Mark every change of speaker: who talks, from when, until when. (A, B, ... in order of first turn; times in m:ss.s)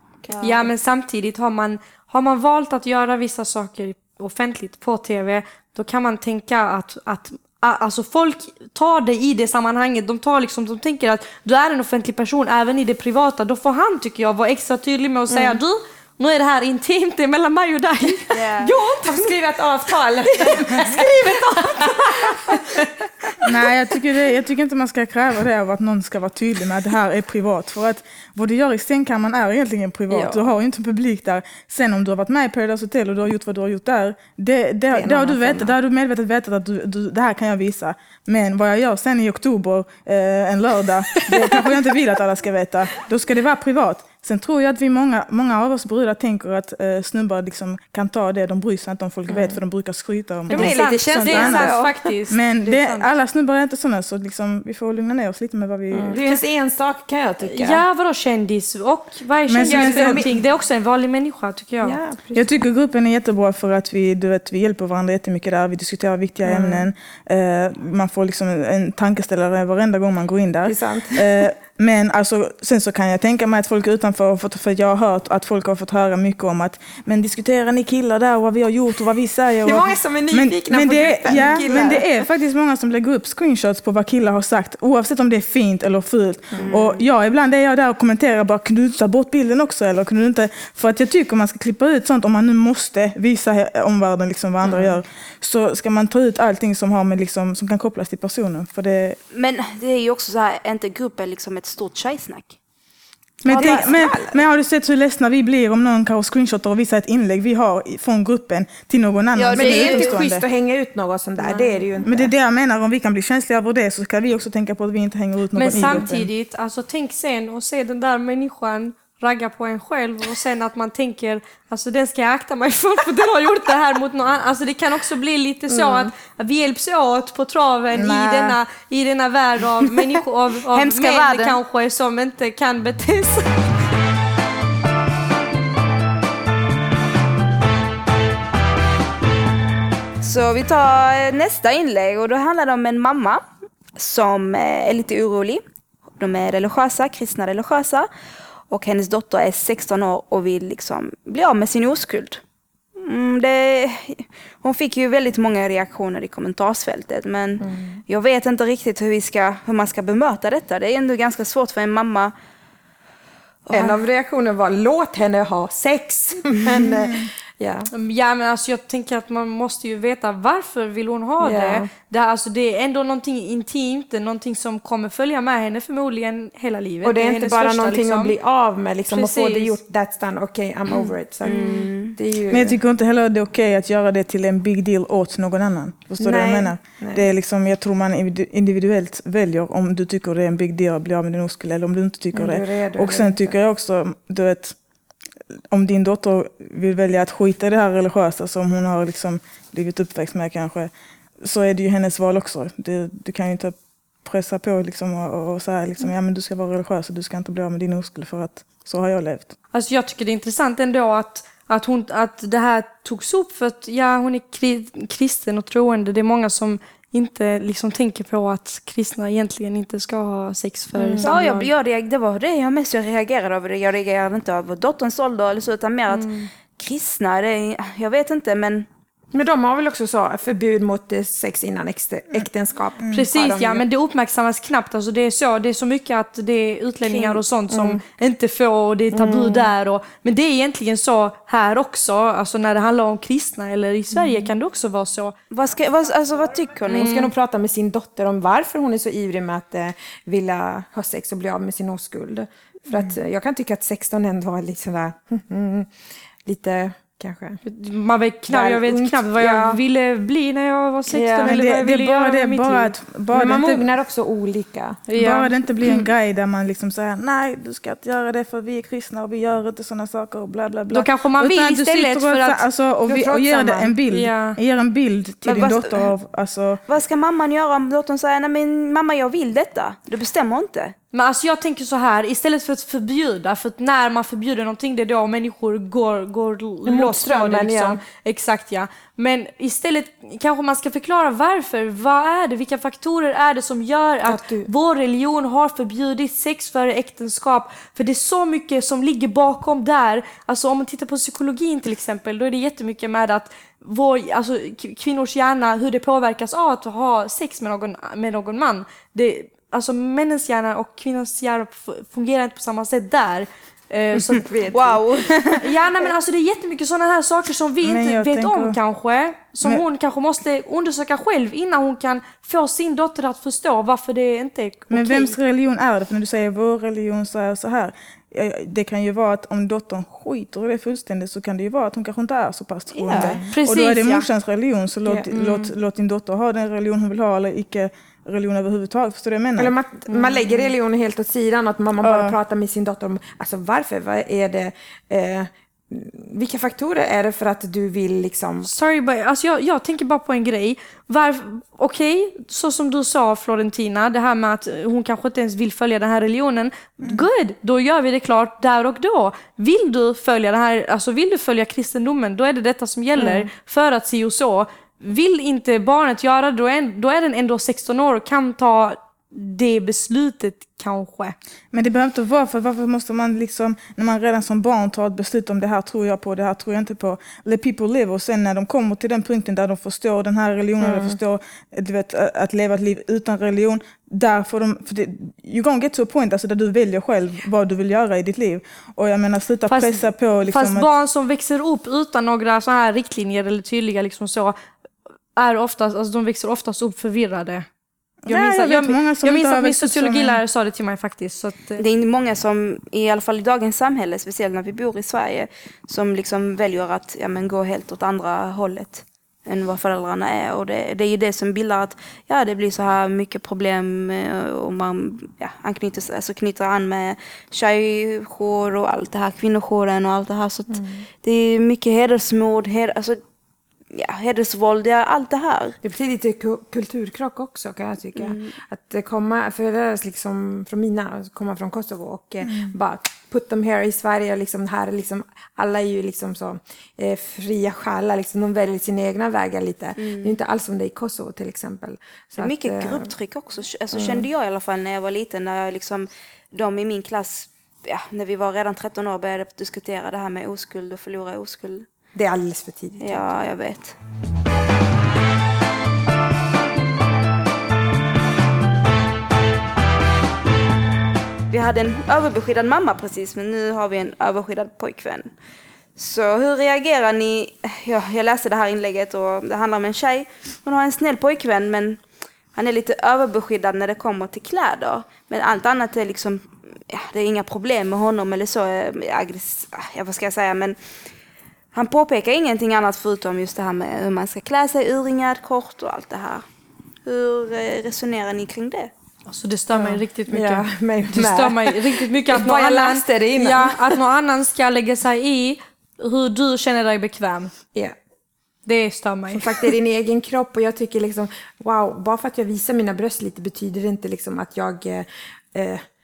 0:00.2-0:00.7 A
0:00.4-0:18.4 B
0:15.3-0:15.6 A
0:18.3-0:18.7 C
0:18.5-0:23.4 A
0:20.4-0:22.6 B
0:23.4-0:56.2 D
0:30.1-0:30.4 A
0:34.9-0:35.8 A
0:41.3-0:41.7 A
0:49.3-0:49.6 A
0:50.5-0:51.9 A
0:50.5-0:53.1 B
0:55.9-0:57.8 A
0:57.4-1:02.0 B
0:59.5-1:00.3 D
0:59.6-1:00.3 A
1:01.8-1:02.4 A
1:02.3-1:39.2 D
1:06.4-1:06.9 A
1:10.7-1:11.4 A
1:19.6-1:22.1 A
1:26.5-1:26.8 A
1:34.6-1:35.0 A
1:39.3-1:42.6 C
1:43.4-1:50.4 D
1:43.5-1:43.9 C
1:43.5-1:44.4 A
1:49.4-1:50.0 C
1:49.5-1:52.3 A
1:49.6-1:50.0 B
1:51.4-1:51.8 B
1:52.0-1:56.3 D
1:55.5-2:13.6 B
1:55.7-1:56.1 A
2:05.7-2:06.1 A
2:07.9-2:08.6 D
2:10.7-2:11.6 C
2:20.2-2:23.4 C
2:24.0-2:25.6 C
2:26.2-2:28.1 C
2:28.7-2:32.4 C
2:33.0-2:42.3 C
2:37.6-2:38.0 A
2:43.7-2:44.0 C
2:43.7-2:47.9 A
2:46.7-2:47.3 D
2:47.9-2:58.4 B
2:51.4-2:51.9 A
2:57.0-3:02.8 A
2:59.1-2:59.8 B
3:01.4-3:02.2 C
3:02.5-3:14.8 D
3:06.2-3:07.3 A
3:12.3-3:13.5 A
3:15.7-3:20.9 D
3:21.4-3:29.6 D
3:29.7-3:41.7 B
3:41.0-3:41.3 A
3:41.2-3:48.9 C
3:46.1-3:46.5 B
3:49.3-3:53.8 A
3:53.0-3:53.3 D
3:53.1-4:05.4 B
3:57.0-3:57.4 C
3:57.7-3:58.0 A
3:59.1-3:59.7 A
4:04.2-4:04.5 A
4:05.5-4:07.3 C
4:06.9-4:07.3 B
4:06.9-4:15.9 A
4:16.5-4:17.6 A
4:17.6-4:22.9 B
4:18.5-4:19.8 A
4:21.1-4:21.6 A
4:21.4-4:23.8 D
4:23.3-4:25.1 A
4:25.1-4:26.0 B
4:25.2-4:36.8 D
4:30.9-4:32.6 B
4:33.1-4:34.0 A
4:34.1-4:34.6 B
4:35.4-4:36.1 C
4:36.9-4:41.0 C
4:41.1-5:14.6 B
4:46.9-4:48.0 A
4:54.3-4:54.7 A
5:14.3-5:15.0 A
5:14.7-5:15.6 C
5:15.5-5:25.4 B
5:17.8-5:18.8 D
5:24.9-5:39.7 D
5:33.0-5:33.4 C
5:33.1-5:33.4 A
5:33.5-5:34.3 B
5:35.1-5:35.7 A
5:39.6-5:48.7 A
5:42.0-5:42.4 D
5:48.6-6:11.4 B
6:03.2-6:03.5 A
6:11.7-6:30.9 D
6:20.8-6:21.2 A
6:29.7-6:34.6 B
6:35.4-6:37.7 B
6:38.2-6:40.4 D
6:38.3-6:41.8 B
6:41.8-7:03.2 C
7:00.7-7:01.0 A
7:03.9-7:05.8 C
7:05.8-7:23.1 A
7:08.2-7:08.5 C
7:12.4-7:12.8 D
7:20.0-7:20.4 C
7:22.4-7:31.9 C
7:23.9-7:24.3 A
7:32.2-7:33.4 A
7:33.0-7:34.0 C
7:41.5-7:45.3 C
7:46.0-7:52.0 C
7:52.6-8:00.8 C
8:01.7-8:06.4 C
8:07.1-8:08.9 C
8:09.3-8:17.5 B
8:09.7-8:13.9 A
8:18.7-8:19.7 B
8:19.3-8:25.8 A